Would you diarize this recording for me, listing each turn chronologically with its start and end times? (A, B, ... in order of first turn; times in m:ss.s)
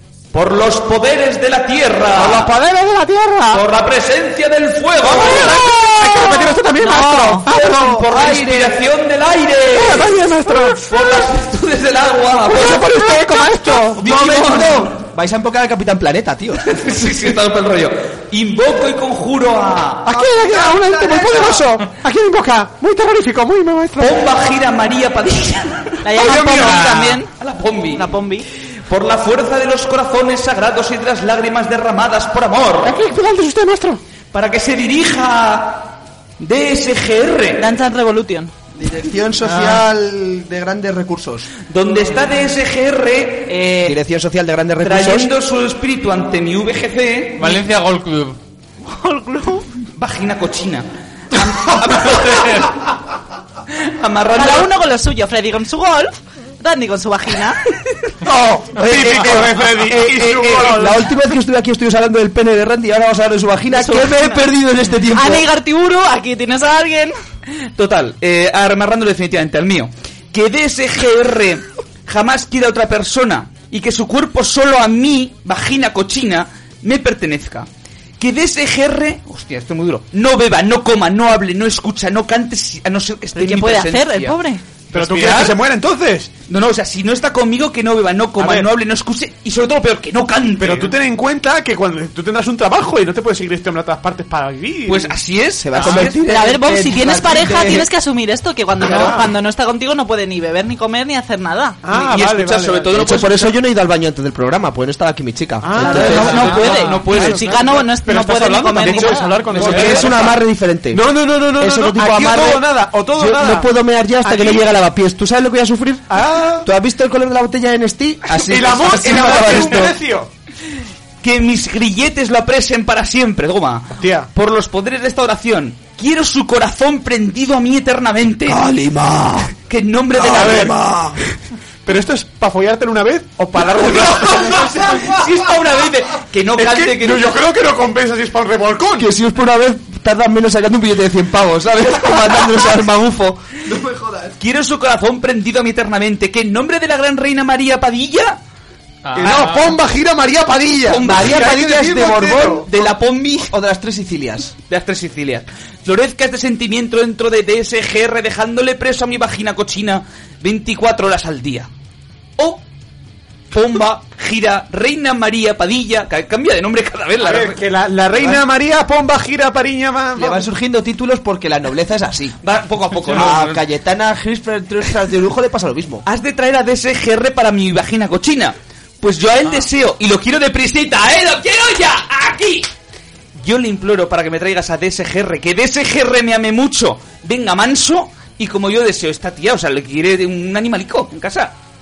0:00.3-0:02.5 A
0:02.1-0:03.6 B
0:03.5-0:06.4 A
0:05.1-0:08.1 B
0:06.8-0:07.5 C
0:07.5-0:08.8 D
0:07.5-0:14.9 A
0:09.7-0:11.3 B
0:12.5-0:14.6 B
0:13.9-0:16.7 D
0:16.6-0:20.1 A
0:20.0-0:24.3 B
0:20.1-0:21.7 D
0:24.0-0:28.1 A
0:26.0-0:27.3 C
0:26.2-0:26.9 B
0:26.5-0:27.2 E
0:27.9-0:28.5 C
0:28.9-0:33.0 A
0:32.8-0:34.0 B
0:34.3-0:37.6 A
0:37.6-0:38.5 C
0:38.8-0:41.5 D
0:39.5-0:39.8 E
0:41.7-0:44.0 A
0:43.8-0:45.3 D
0:44.8-0:47.6 A
0:47.4-0:48.4 E
0:48.9-0:49.7 C
0:50.0-0:52.9 A
0:53.8-0:54.7 A
0:54.4-0:57.6 C
0:58.2-1:01.0 B
0:58.8-1:05.5 D
1:03.7-1:04.5 C
1:05.1-1:07.2 C
1:07.6-1:17.7 A
1:18.2-1:24.4 A
1:23.4-1:24.6 C
1:24.9-1:25.6 A
1:24.9-1:26.3 B
1:26.5-1:30.9 A
1:28.4-1:28.7 B
1:30.6-1:35.2 B
1:34.9-1:36.2 A
1:35.6-1:37.9 D
1:36.2-1:41.8 C
1:38.8-1:39.3 B
1:41.8-1:42.9 B
1:41.9-1:43.5 A
1:42.9-1:46.6 D
1:45.6-1:50.4 B
1:45.8-1:49.6 C
1:45.8-1:47.6 A
1:46.6-1:47.0 E
1:49.5-1:50.3 A
1:49.5-2:00.0 D
1:50.9-1:53.7 B
1:54.2-1:54.6 B
1:56.1-1:56.7 B
1:58.4-2:00.3 B
1:58.7-1:59.9 A
2:01.2-2:08.6 A
2:04.0-2:04.3 B
2:08.5-2:09.5 D
2:09.7-2:10.8 A
2:10.2-2:10.8 B
2:10.2-2:11.2 D
2:11.9-2:14.8 B
2:14.0-2:17.4 A
2:14.0-2:15.2 D
2:16.6-2:19.1 B
2:19.0-2:24.4 D
2:24.4-2:28.4 A
2:29.0-2:29.8 E
2:29.2-2:32.6 B
2:30.9-2:31.6 A
2:30.9-2:32.9 D
2:32.6-2:33.5 A
2:33.4-2:34.5 D
2:34.7-2:41.7 A
2:43.5-2:47.6 A
2:47.2-2:50.4 B
2:48.1-2:48.4 D
2:50.2-2:52.4 D
2:52.4-2:53.6 A
2:53.0-2:56.0 D
2:56.1-3:02.7 A
3:03.4-3:11.6 A